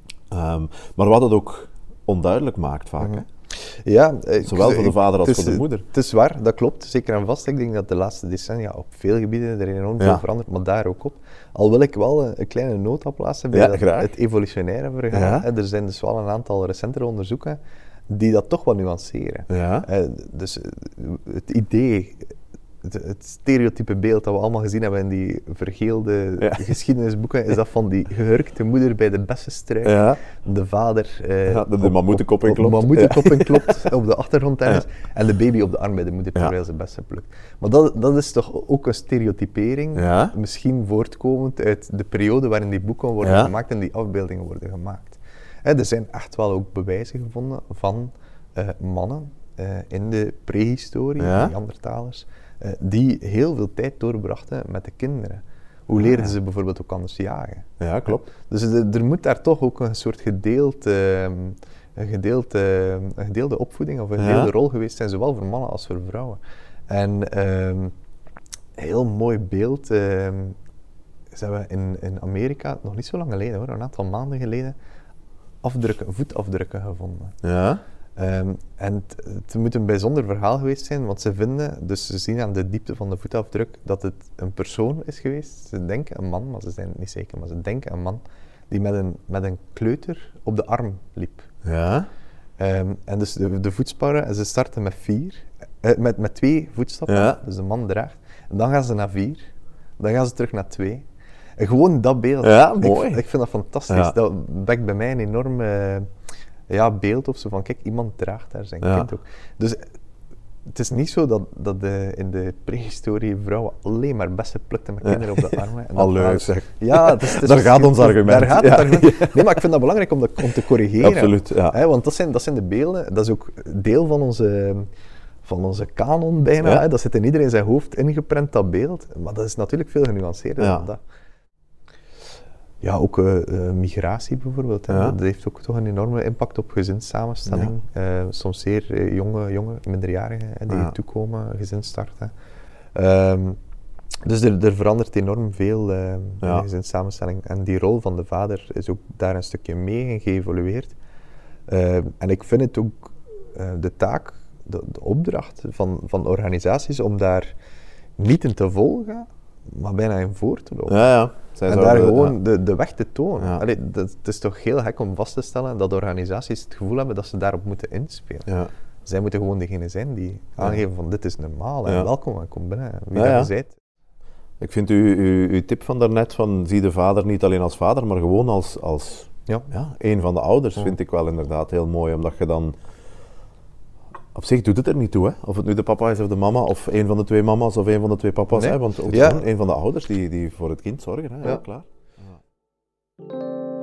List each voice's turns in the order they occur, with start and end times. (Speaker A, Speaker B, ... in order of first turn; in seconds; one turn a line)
Speaker A: 0.3-3.2
Speaker B: 3.0-67.9
Speaker A: 4.4-5.8
Speaker A: 13.5-14.1
Speaker A: 15.1-15.5
Speaker A: 19.5-19.9
Speaker A: 26.4-26.6
Speaker A: 29.8-30.2
Speaker A: 31.5-33.8
Speaker A: 39.9-40.3
Speaker A: 43.2-43.5
Speaker A: 51.2-51.5
Speaker A: 56.0-56.3
Speaker A: 57.8-58.2
Speaker A: 64.2-64.5
Speaker B: 68.8-70.6
Speaker B: 71.3-74.8
Speaker B: 75.6-77.4
Speaker A: 77.4-77.8
Speaker B: 78.2-91.5
Speaker A: 91.6-92.1
Speaker B: 92.6-99.5
Speaker A: 97.1-97.3
Speaker B: 100.0-101.0
Speaker B: 101.6-106.1
Speaker A: 102.4-103.2
Speaker A: 103.9-104.1
Speaker B: 106.7-109.8
Speaker A: 108.8-109.1
Speaker B: 110.7-124.9
Speaker A: 115.0-119.6
Speaker A: 121.0-121.8
Speaker B: 125.4-131.0
Speaker A: 130.6-130.8
Speaker B: 132.8-142.3
Speaker A: 134.9-135.2
Speaker B: 142.9-143.6
Speaker B: 144.2-150.9
Speaker A: 146.4-146.7
Speaker B: 151.7-157.5
Speaker B: 158.2-161.1
Speaker A: 160.9-162.4
Speaker B: 161.7-168.5
Speaker B: 169.1-173.8
Speaker A: 173.1-173.5
Speaker A: 174.6-182.8
Speaker A: 184.3-192.3
Speaker B: 188.5-189.4